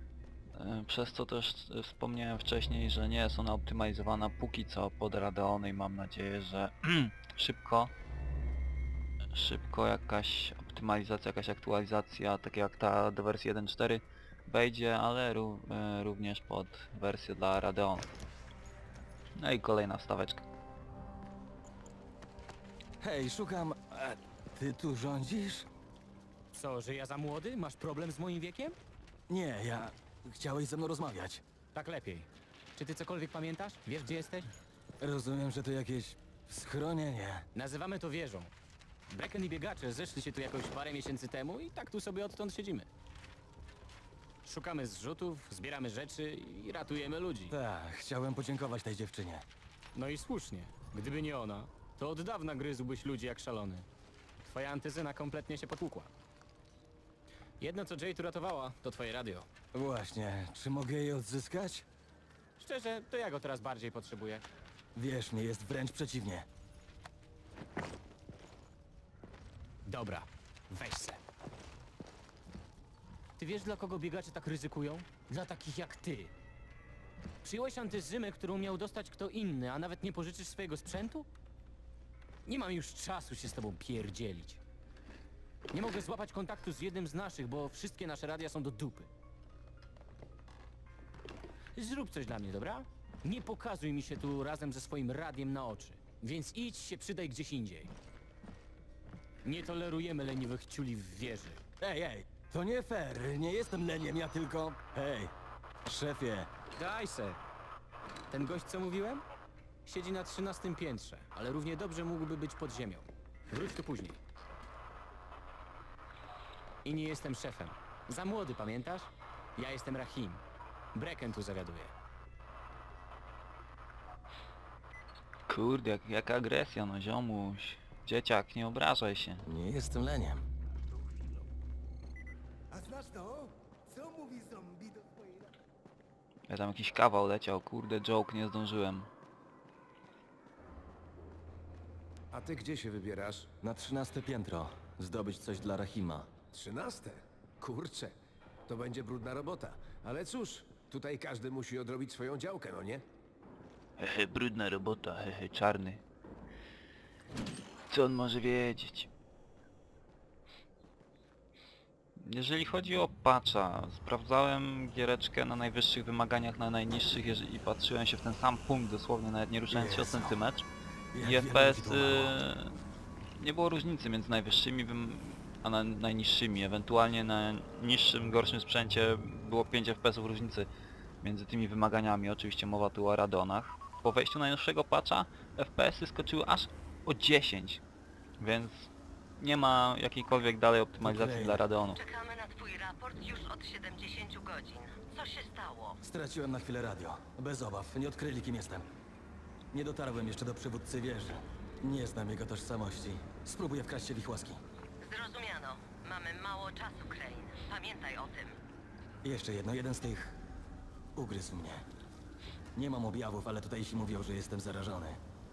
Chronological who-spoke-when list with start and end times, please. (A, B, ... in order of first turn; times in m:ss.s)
0:00.5-0:07.9 A
0:09.3-0:18.1 A
0:19.4-0:20.4 A
0:23.0-0:25.7 B
0:26.5-0:28.8 C
0:29.3-0:31.4 B
0:31.8-0:34.5 C
0:35.0-0:37.4 B
0:37.6-0:38.5 C
0:39.1-0:42.9 C
0:44.4-0:47.6 C
0:47.5-0:49.5 B
0:50.0-0:53.9 C
0:54.4-0:56.1 C
0:57.6-0:59.5 C
0:59.7-1:01.9 B
1:02.6-1:04.4 C
1:05.0-1:06.5 B
1:09.9-1:11.2 C
1:13.4-1:16.3 C
1:17.4-1:21.3 C
1:22.4-1:24.6 C
1:25.7-1:29.1 C
1:31.8-1:37.9 C
1:39.4-1:41.6 C
1:41.8-1:46.5 B
1:46.8-1:47.4 C
1:48.3-1:49.2 C
1:49.9-1:54.2 C
1:56.8-2:00.4 C
2:01.0-2:01.9 C
2:05.5-2:09.5 A
2:09.4-2:10.5 B
2:11.0-2:11.3 D
2:12.7-2:15.4 D
2:16.5-2:19.1 A
2:22.3-2:23.5 D
2:23.6-2:26.3 B
2:26.5-2:28.2 D
2:28.7-2:33.0 D
2:34.0-2:36.0 A
2:37.9-2:39.1 A
2:42.2-2:50.7 A
2:49.7-2:50.4 B
2:51.1-2:52.4 B
2:51.2-2:52.8 A
2:53.4-3:00.7 A
3:01.2-3:07.8 A
3:08.4-3:12.0 A
3:11.0-3:11.7 B
3:11.9-3:16.0 E
3:16.0-3:18.9 B
3:19.7-3:24.6 B
3:25.0-3:28.6 E
3:29.2-3:30.4 B
3:31.2-3:31.9 B
3:32.8-3:35.2 B